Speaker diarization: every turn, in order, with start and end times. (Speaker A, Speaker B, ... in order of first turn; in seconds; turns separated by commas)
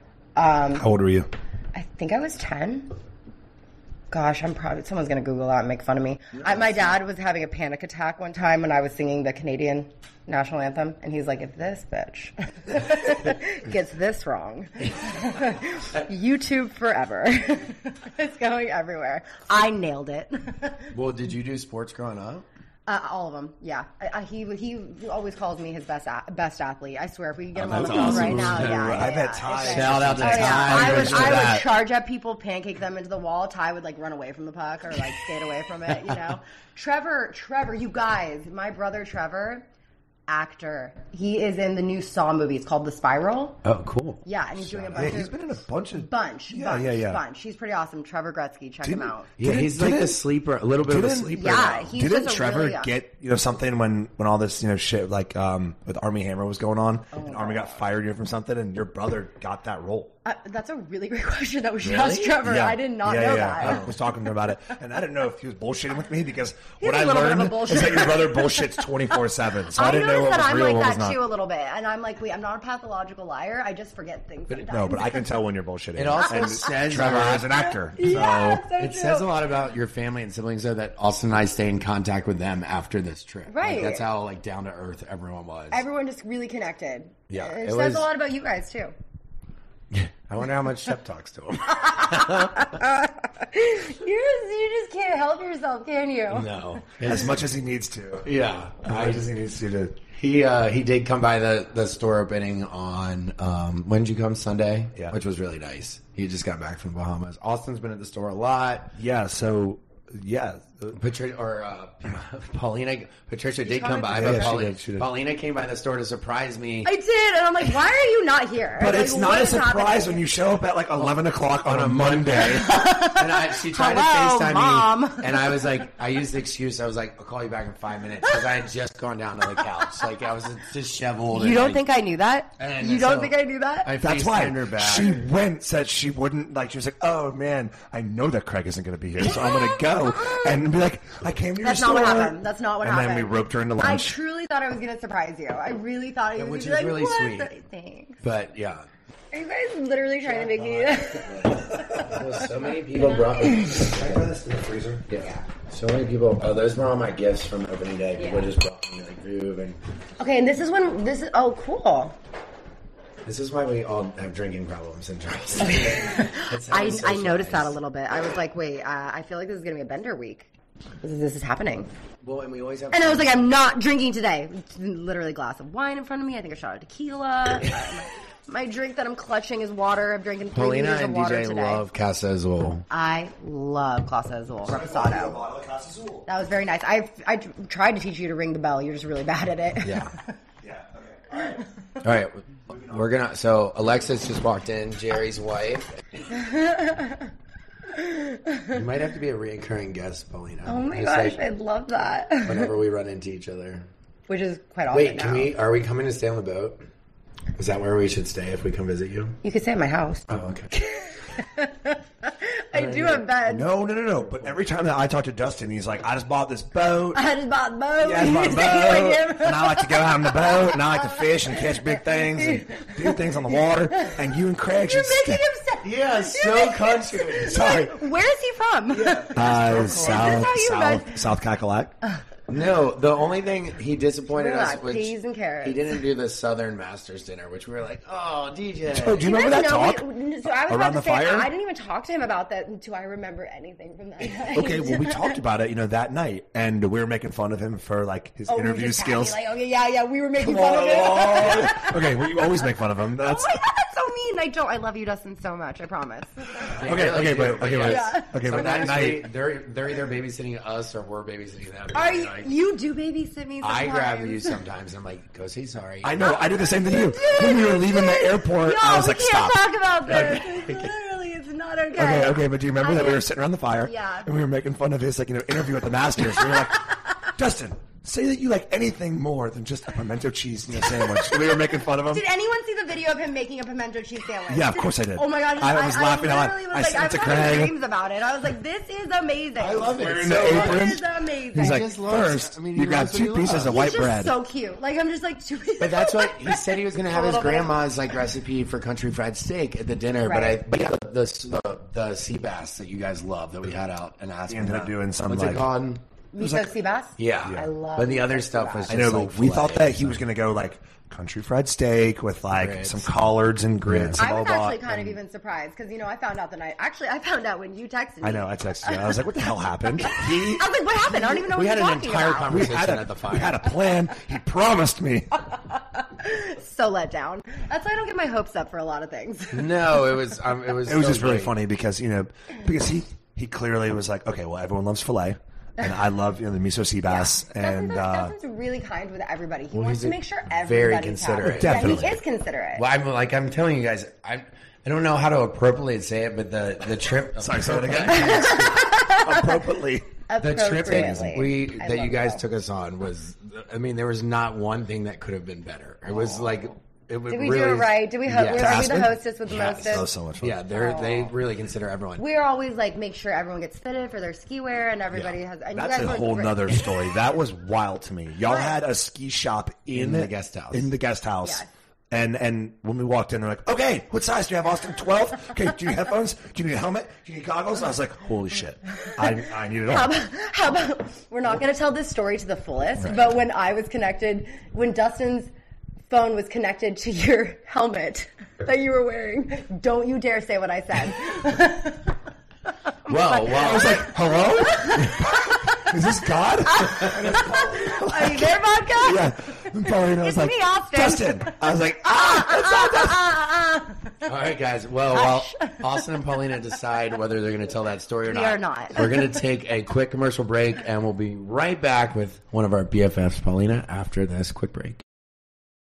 Speaker A: 0.4-0.9, Speaker B: 0.7-1.3, Speaker A: 1.7-2.9, Speaker A: 4.1-20.9, Speaker C: 6.4-6.9, Speaker C: 20.9-22.5, Speaker A: 22.9-39.6, Speaker C: 27.6-31.7, Speaker B: 27.6-31.6, Speaker A: 40.3-43.6, Speaker C: 43.6-45.2, Speaker A: 44.2-45.4, Speaker B: 45.0-47.2, Speaker A: 46.0-49.3, Speaker B: 48.8-50.2, Speaker C: 49.4-51.9, Speaker B: 50.8-60.1, Speaker A: 51.3-52.9, Speaker A: 57.1-57.9, Speaker A: 60.2-63.9, Speaker C: 61.8-62.4, Speaker B: 62.4-71.2, Speaker C: 63.6-63.9, Speaker A: 66.8-68.9, Speaker A: 69.7-75.2, Speaker B: 74.5-78.6, Speaker C: 76.0-85.8, Speaker A: 77.5-79.3, Speaker A: 83.5-84.1, Speaker A: 85.7-88.9, Speaker C: 87.3-88.1, Speaker C: 89.9-92.8, Speaker A: 91.8-96.5, Speaker C: 96.3-97.3, Speaker B: 97.0-98.3, Speaker C: 98.2-99.2, Speaker B: 98.8-100.0, Speaker C: 100.1-109.0, Speaker B: 109.0-111.0, Speaker C: 110.9-116.9, Speaker A: 113.6-114.7, Speaker B: 114.1-115.1, Speaker A: 116.8-120.2, Speaker B: 118.8-122.8, Speaker C: 121.0-131.8, Speaker A: 122.4-125.5, Speaker A: 131.3-133.9, Speaker C: 132.6-135.2, Speaker B: 134.0-144.2, Speaker A: 139.2-140.6, Speaker A: 141.6-148.2, Speaker C: 146.3-147.5, Speaker C: 148.2-148.9, Speaker A: 149.3-152.2, Speaker C: 150.2-154.3, Speaker B: 153.6-155.1, Speaker C: 155.1-159.8, Speaker A: 160.2-162.2, Speaker C: 163.2-167.8, Speaker A: 166.0-170.5, Speaker A: 171.0-171.9, Speaker C: 172.2-173.4, Speaker A: 172.9-181.8, Speaker C: 180.5-182.8, Speaker A: 182.9-185.4, Speaker B: 184.6-186.3, Speaker A: 186.3-190.1, Speaker C: 189.8-190.1, Speaker B: 190.6-191.6, Speaker C: 192.0-196.2, Speaker B: 192.7-193.0, Speaker A: 196.3-197.3, Speaker A: 197.9-198.8, Speaker C: 198.7-201.4, Speaker A: 200.7-202.7, Speaker C: 202.4-203.9, Speaker A: 204.3-205.5, Speaker C: 204.9-206.8, Speaker C: 207.6-209.4, Speaker A: 209.4-213.7, Speaker C: 210.3-210.7, Speaker C: 212.7-213.3, Speaker B: 213.4-217.2, Speaker A: 217.1-231.2, Speaker B: 218.0-225.4, Speaker C: 225.8-227.6, Speaker B: 227.5-228.0, Speaker C: 228.9-230.5, Speaker B: 229.3-231.9, Speaker C: 232.5-239.3, Speaker A: 234.3-236.0, Speaker B: 238.9-241.5, Speaker A: 239.2-245.4, Speaker B: 244.4-249.4, Speaker A: 248.5-252.3, Speaker B: 250.4-253.5, Speaker A: 253.2-256.8, Speaker C: 256.7-262.5, Speaker B: 256.8-259.3, Speaker A: 257.8-259.0, Speaker A: 261.9-264.6, Speaker C: 263.6-266.3, Speaker B: 266.0-269.6, Speaker A: 266.2-274.3, Speaker C: 270.1-270.9, Speaker B: 272.0-282.2, Speaker A: 280.9-291.9, Speaker B: 284.5-287.8, Speaker C: 289.6-291.0, Speaker B: 289.9-294.3, Speaker C: 291.6-293.9, Speaker A: 293.7-298.1, Speaker C: 295.8-306.0, Speaker A: 300.2-300.6, Speaker B: 304.5-305.7, Speaker A: 306.3-309.0, Speaker B: 306.4-306.8, Speaker C: 307.2-310.2, Speaker B: 308.9-315.2, Speaker C: 312.5-313.1, Speaker C: 313.9-314.2, Speaker A: 314.2-319.2, Speaker B: 318.2-320.7, Speaker A: 320.0-322.7, Speaker C: 321.2-323.7, Speaker B: 322.5-325.4, Speaker A: 326.0-330.0, Speaker C: 329.5-331.6, Speaker B: 330.9-338.4, Speaker A: 337.1-342.8, Speaker C: 339.7-342.2, Speaker B: 341.4-342.2, Speaker C: 342.8-348.8, Speaker B: 347.4-350.1, Speaker A: 348.1-349.6, Speaker A: 350.3-352.4, Speaker C: 350.4-359.1, Speaker A: 357.3-360.1, Speaker B: 358.4-360.6, Speaker C: 360.4-362.2, Speaker A: 360.7-361.3, Speaker A: 362.2-366.9, Speaker B: 365.1-380.1, Speaker A: 368.5-368.8, Speaker C: 369.9-370.9, Speaker A: 379.9-385.5, Speaker A: 386.1-392.1, Speaker A: 393.1-395.9, Speaker C: 393.1-394.0, Speaker B: 393.5-403.3, Speaker A: 396.7-404.0, Speaker C: 404.2-415.0, Speaker A: 405.1-405.8, Speaker A: 408.3-409.2